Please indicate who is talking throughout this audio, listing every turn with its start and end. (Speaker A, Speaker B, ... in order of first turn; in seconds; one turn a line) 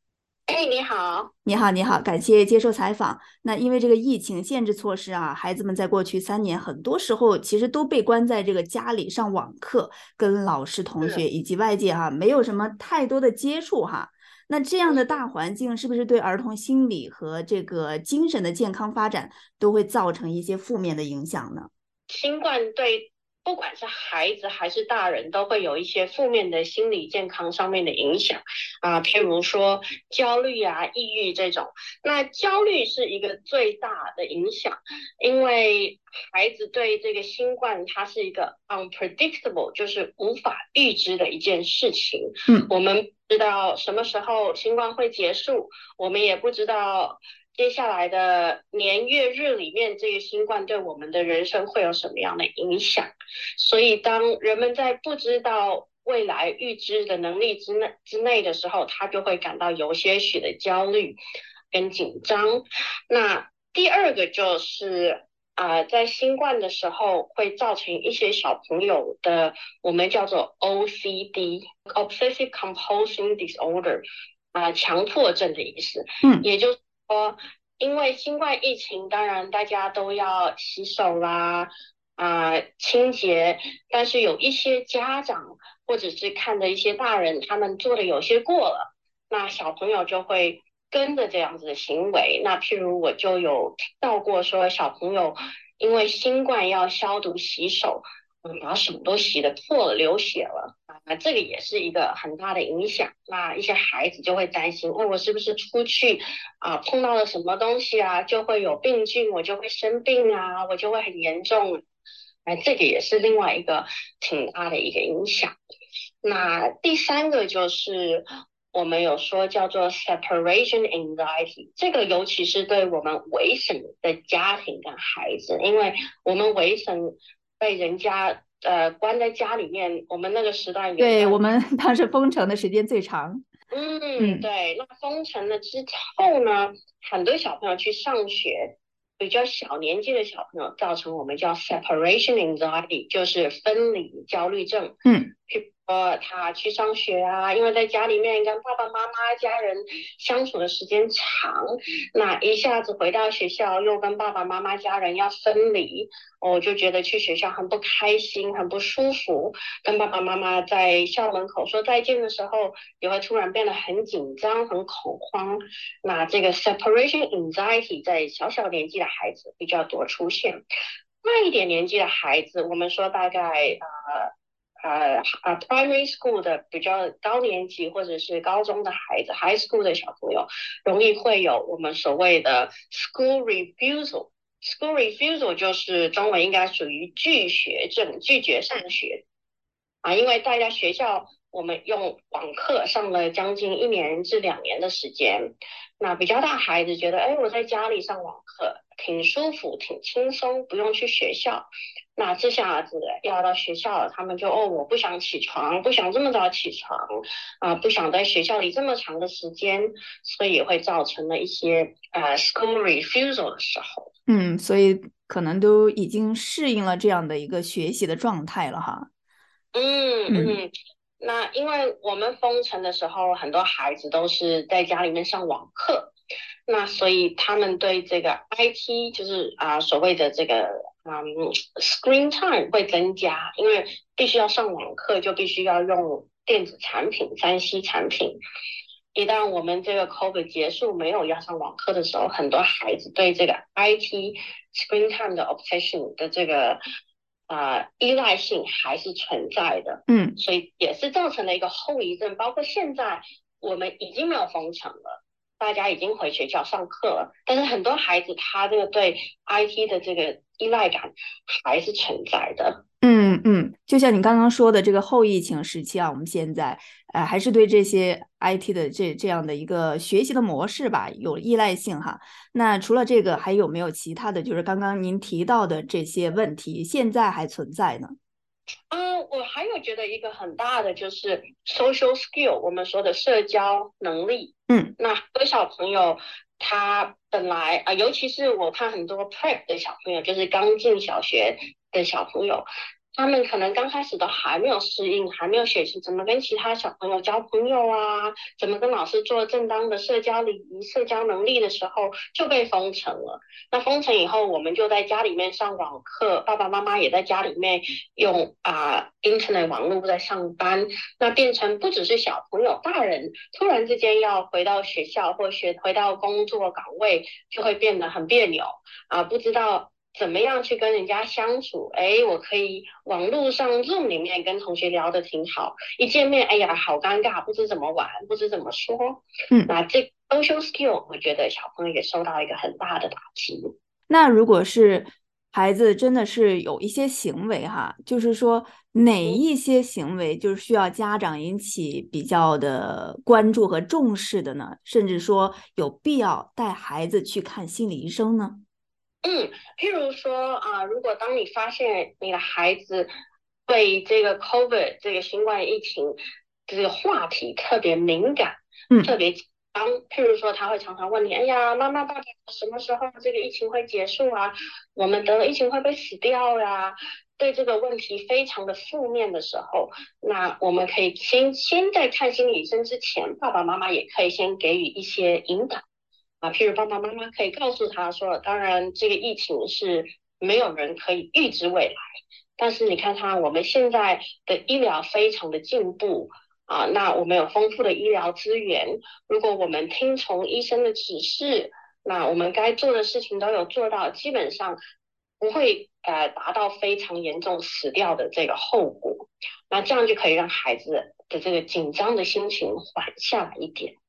Speaker A: 0.5-1.3
Speaker B: 1.4-21.7
Speaker A: 14.9-15.2
Speaker A: 22.1-61.2
Speaker A: 61.7-111.8
Speaker A: 112.5-115.5
Speaker A: 116.2-131.4
Speaker B: 131.0-133.4
Speaker A: 133.7-144.9
Speaker B: 134.2-134.4
Speaker A: 145.5-170.6
Speaker A: 171.2-174.3
Speaker A: 174.8-189.2
Speaker A: 190.0-207.0
Speaker A: 207.6-214.1
Speaker B: 214.3-219.1
Speaker A: 219.7-226.1
Speaker B: 220.3-220.6
Speaker A: 226.7-238.4
Speaker A: 239.1-246.8
Speaker A: 247.5-262.8
Speaker B: 250.1-250.3
Speaker B: 263.0-278.1
Speaker A: 278.9-333.7
Speaker B: 334.1-348.6
Speaker A: 349.2-353.1
Speaker A: 353.7-375.8
Speaker A: 376.4-382.0
Speaker A: 382.6-394.8
Speaker A: 395.4-403.9